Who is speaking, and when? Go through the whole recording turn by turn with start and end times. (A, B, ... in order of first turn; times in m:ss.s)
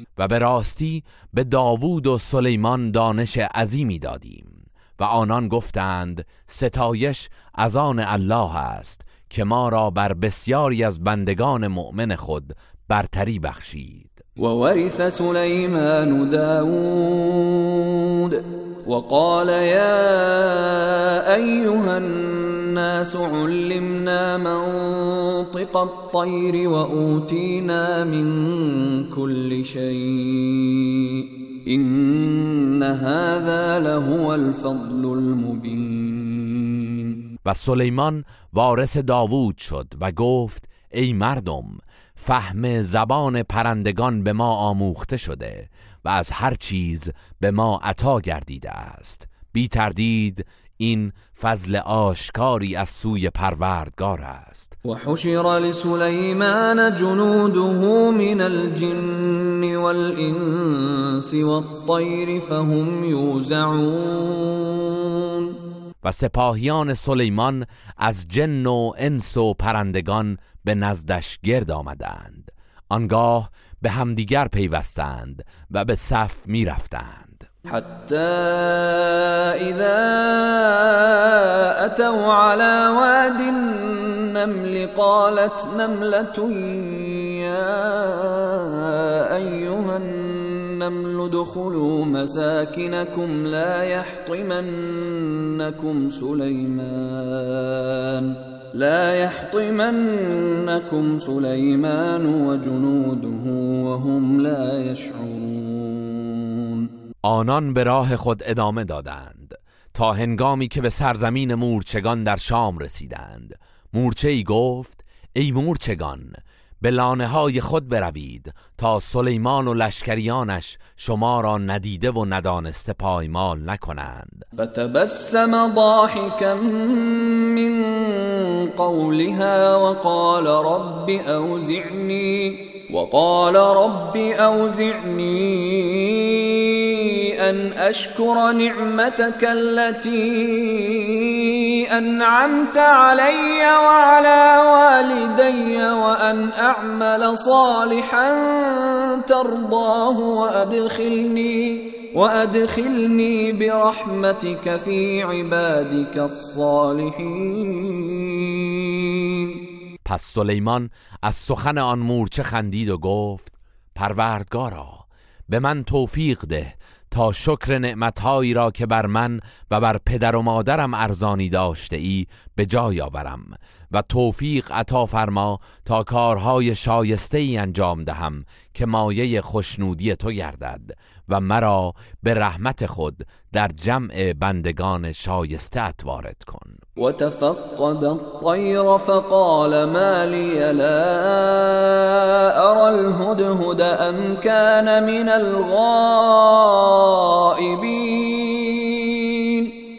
0:00.2-0:14.2 A
0:14.4-0:37.1 B
0:37.4-0:54.7 A
0:54.8-1:05.4 B
1:06.0-1:17.4 A
1:17.7-1:46.9 B
1:47.2-2:04.5 A
2:04.6-2:39.5 B
2:40.0-3:06.8 A
3:07.0-3:19.7 B